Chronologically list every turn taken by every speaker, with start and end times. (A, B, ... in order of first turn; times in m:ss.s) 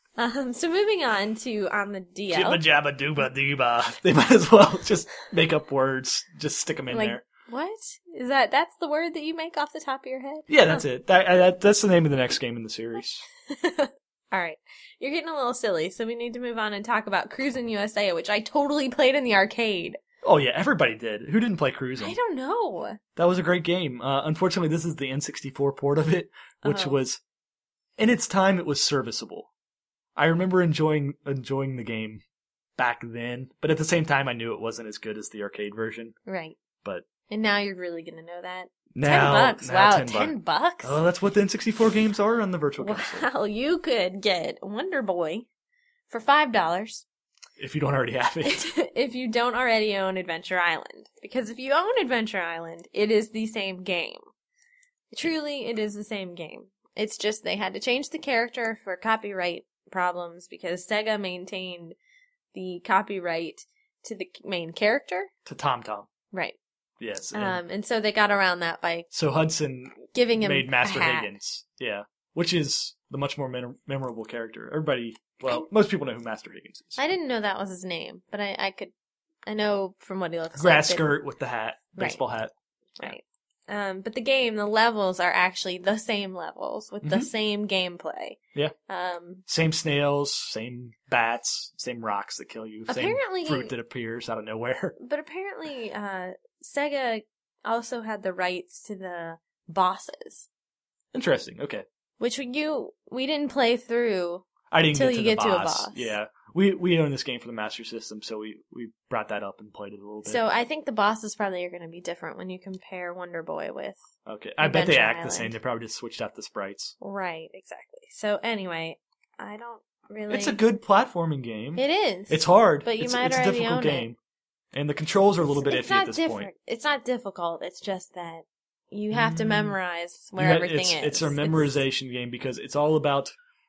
0:00.2-0:02.6 A
0:02.3-0:07.2 B
0:06.9-0:10.8 A
0:10.5-0:13.2 B
0:13.5-0:20.0 A
0:20.2-0:22.2 B
0:22.0-0:23.0 A
0:23.2-0:27.2 B
0:26.6-0:27.0 A
0:28.0-0:29.5 B
0:30.2-0:32.2 B
0:32.8-0:36.2 B
0:36.3-0:36.6 A
0:37.3-0:41.0 A
0:38.9-0:43.3 B
0:42.8-0:45.5 A
0:46.1-0:47.0 A
0:47.6-0:48.7 B
0:48.4-0:54.2 A
0:55.1-1:02.0 A
1:02.5-1:05.3 A
1:05.5-1:06.1 B
1:06.3-1:06.6 A
1:07.0-1:07.6 B
1:07.3-1:09.1 A
1:09.1-1:17.0 B
1:10.1-1:11.3 A
1:17.0-1:18.9 A
1:19.5-1:21.1 A
1:20.6-1:23.2 B
1:22.0-1:22.2 A
1:23.0-1:29.4 A
1:27.0-1:27.3 B
1:29.5-1:35.0 B
1:32.9-1:33.7 A
1:35.0-1:40.5 A
1:41.1-1:41.8 B
1:42.2-1:46.2 A
1:44.7-1:50.4 B
1:50.2-1:54.0 A
1:54.3-1:57.0 B
1:54.6-1:55.6 A
1:57.0-2:00.6 A
2:00.3-2:04.2 B
2:01.8-2:04.1 A
2:04.7-2:06.5 B
2:05.5-2:11.7 A
2:09.1-2:09.8 B
2:10.4-2:13.3 B